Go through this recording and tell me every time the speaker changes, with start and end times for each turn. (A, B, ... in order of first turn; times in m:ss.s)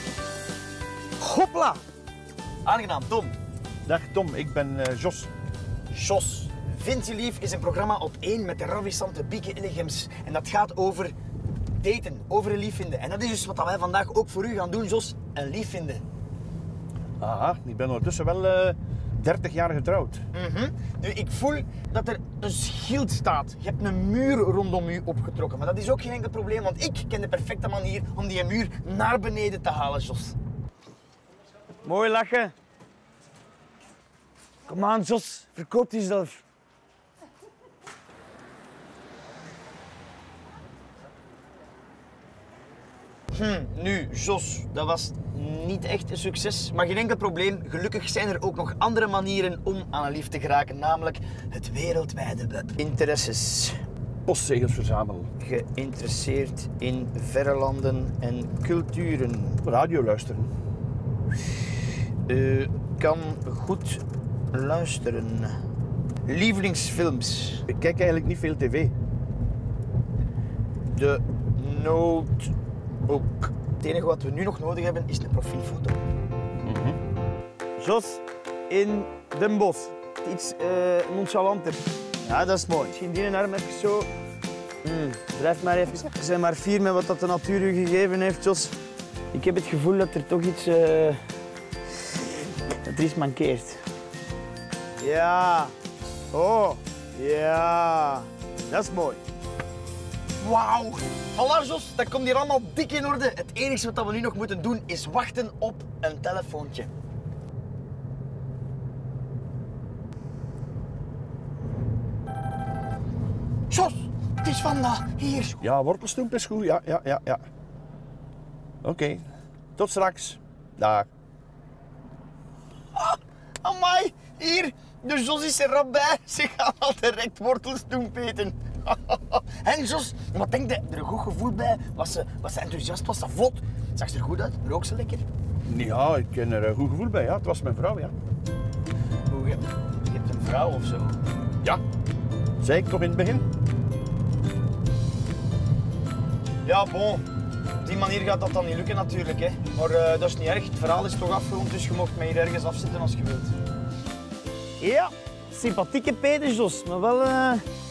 0:01.2-0:01.8 A
0:02.6-0:03.3 A
0:03.9-0:05.3 B
0:05.9-0:11.2 A
0:11.8-0:16.0 A
0:17.2-0:20.2 B
0:20.3-0:30.4 A
0:31.8-0:32.5 A
0:34.7-0:36.4 A
0:43.3-0:53.8 A
0:54.3-0:55.3 B
0:55.4-0:59.6 A
0:59.6-1:00.5 B
1:02.3-1:05.6 A
1:06.3-1:07.7 A
1:07.7-1:08.9 B
1:10.9-1:12.5 A
1:13.1-1:16.0 A
1:16.6-1:17.0 B
1:17.8-1:24.1 A
1:24.8-1:28.8 A
1:29.3-1:31.2 A
1:32.8-1:33.8 A
1:35.0-1:35.7 A
1:36.3-1:39.2 A
1:40.4-1:46.9 A
1:53.7-1:55.6 A
1:55.6-1:57.4 B
1:58.8-1:59.2 B
1:59.8-2:01.1 B
2:03.0-2:15.2 A
2:15.7-2:18.1 B
2:19.3-2:21.2 A
2:22.6-2:23.5 B
2:26.6-2:27.2 A
2:27.8-2:33.6 A
2:34.8-2:37.6 A